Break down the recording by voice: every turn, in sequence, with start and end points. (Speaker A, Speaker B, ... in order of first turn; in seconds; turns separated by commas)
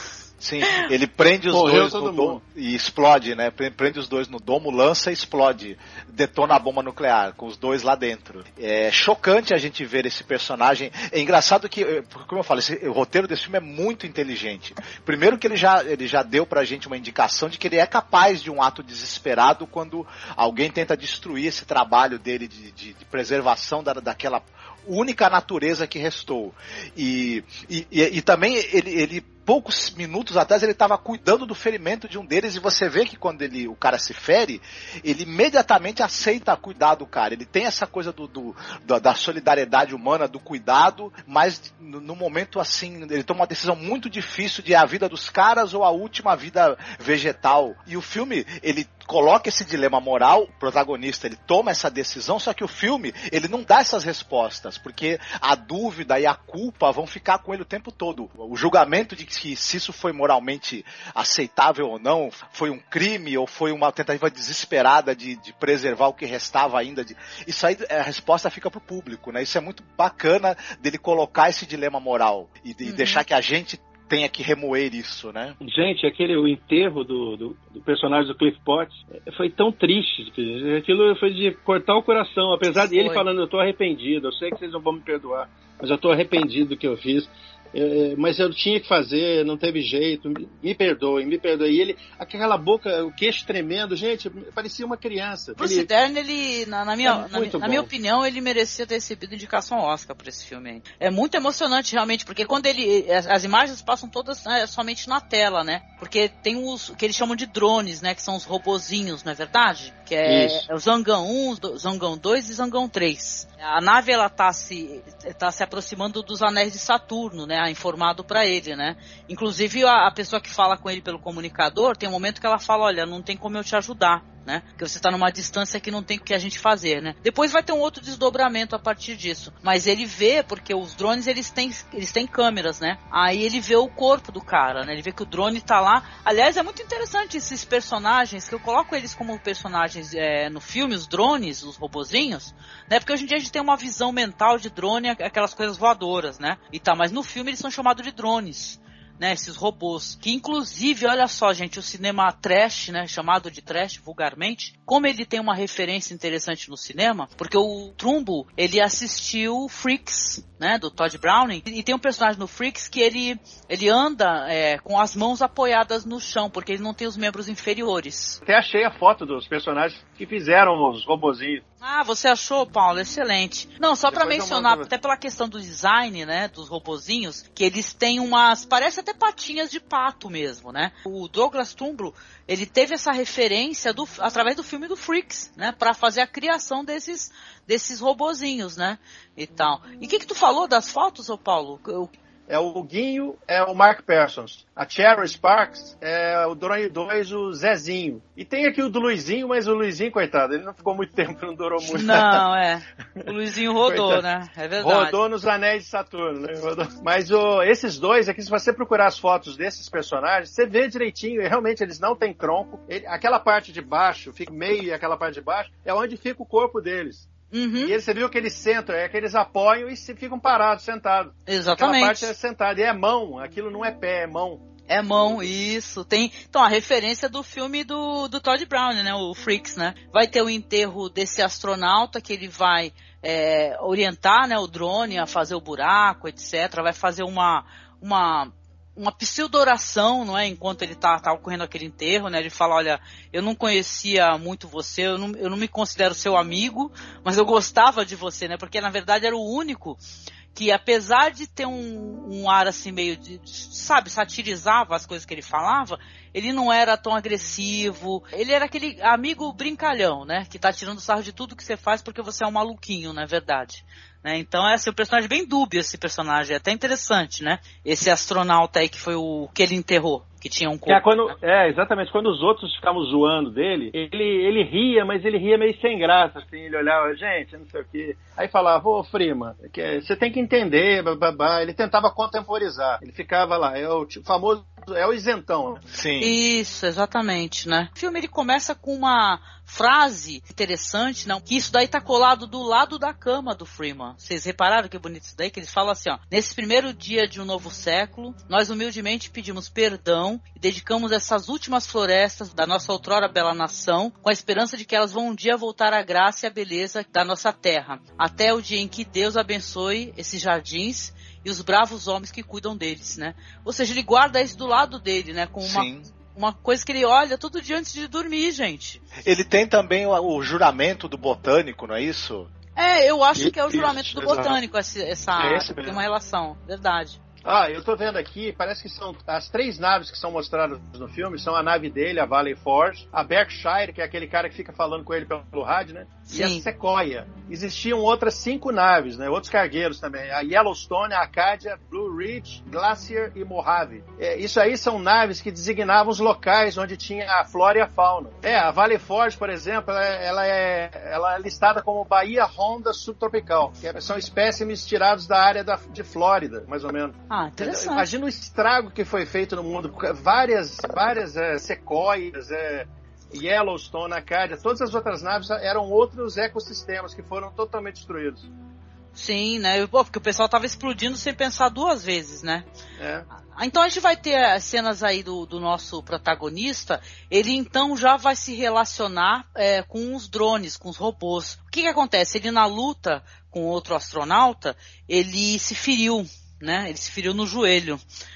Speaker A: 0.4-75.6, Speaker B: 1.5-2.4, Speaker C: 72.8-73.2, Speaker B: 75.6-95.9, Speaker C: 82.8-83.3, Speaker C: 95.6-168.4, Speaker B: 97.0-97.9, Speaker B: 110.2-110.7, Speaker B: 168.4-171.6, Speaker C: 171.8-192.1, Speaker B: 174.1-174.9, Speaker B: 192.5-202.4, Speaker C: 201.9-205.2, Speaker B: 203.9-204.2, Speaker B: 204.8-217.3, Speaker C: 217.5-217.9, Speaker B: 217.8-224.6, Speaker C: 221.5-222.3, Speaker C: 224.9-250.0, Speaker C: 250.6-271.4, Speaker B: 270.9-285.8, Speaker A: 285.9-286.4, Speaker C: 286.2-319.0, Speaker A: 315.6-316.1, Speaker A: 319.2-322.5, Speaker C: 322.8-327.2, Speaker B: 323.4-324.6, Speaker B: 325.4-326.0, Speaker B: 327.4-368.5, Speaker C: 336.3-336.7, Speaker C: 357.3-358.1, Speaker C: 369.2-372.6, Speaker B: 373.0-373.3, Speaker C: 373.5-388.0